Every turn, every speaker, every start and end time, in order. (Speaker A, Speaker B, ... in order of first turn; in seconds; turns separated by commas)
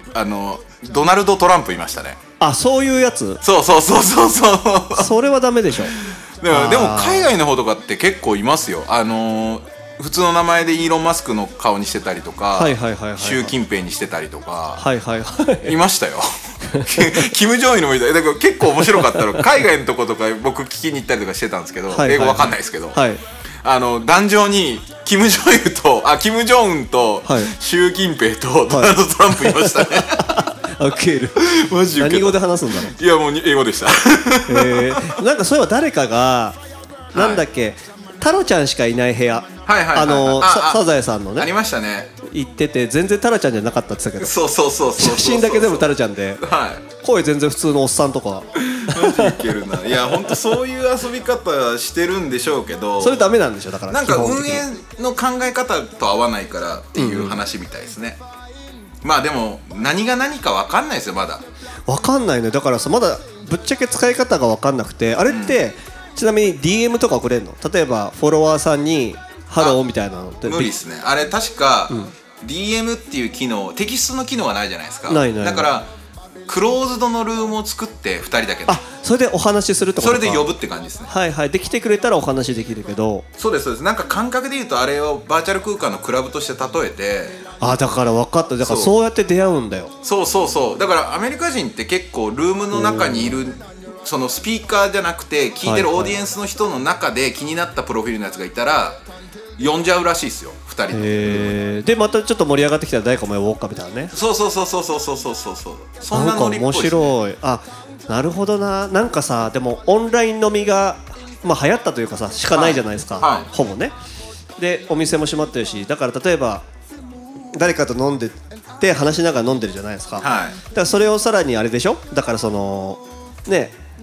Speaker A: 0.1-2.2, Speaker B: 2.4-3.4, Speaker A: 3.4-5.1, Speaker B: 4.9-5.9, Speaker A: 6.0-14.8, Speaker B: 6.5-7.3, Speaker B: 12.5-13.6, Speaker B: 14.8-15.7, Speaker A: 15.6-23.0, Speaker B: 16.7-17.3, Speaker B: 18.9-19.5, Speaker B: 21.9-23.2, Speaker A: 23.6-30.6, Speaker B: 27.2-27.5, Speaker B: 28.7-31.4, Speaker A: 31.4-35.2, Speaker B: 31.9-32.9, Speaker B: 34.5-36.6, Speaker A: 37.1-37.4, Speaker B: 37.1-41.5, Speaker A: 39.6-42.1, Speaker B: 42.2-44.4, Speaker A: 44.2-46.8, Speaker B: 45.0-46.4, Speaker B: 47.0-49.4, Speaker A: 48.5-53.3, Speaker B: 53.0-54.6, Speaker A: 53.9-58.2, Speaker B: 56.9-57.4, Speaker A: 59.0-61.4, Speaker B: 61.9-70.7, Speaker A: 65.3-65.6, Speaker A: 70.4-75.9, Speaker B: 75.1-75.7, Speaker A: 76.5-78.8, Speaker B: 78.7-80.5, Speaker A: 80.0-81.1, Speaker B: 81.0-83.2, Speaker A: 83.4-87.5, Speaker B: 87.6-89.9, Speaker A: 88.6-88.9, Speaker A: 90.0-99.0, Speaker B: 92.7-93.4, Speaker B: 95.6-96.2, Speaker A: 99.6-101.6, Speaker B: 100.9-104.1, Speaker A: 104.1-107.1, Speaker B: 106.1-113.9, Speaker A: 112.5-113.5, Speaker B: 114.6-116.6, Speaker B: 117.5-123.8, Speaker A: 120.2-120.6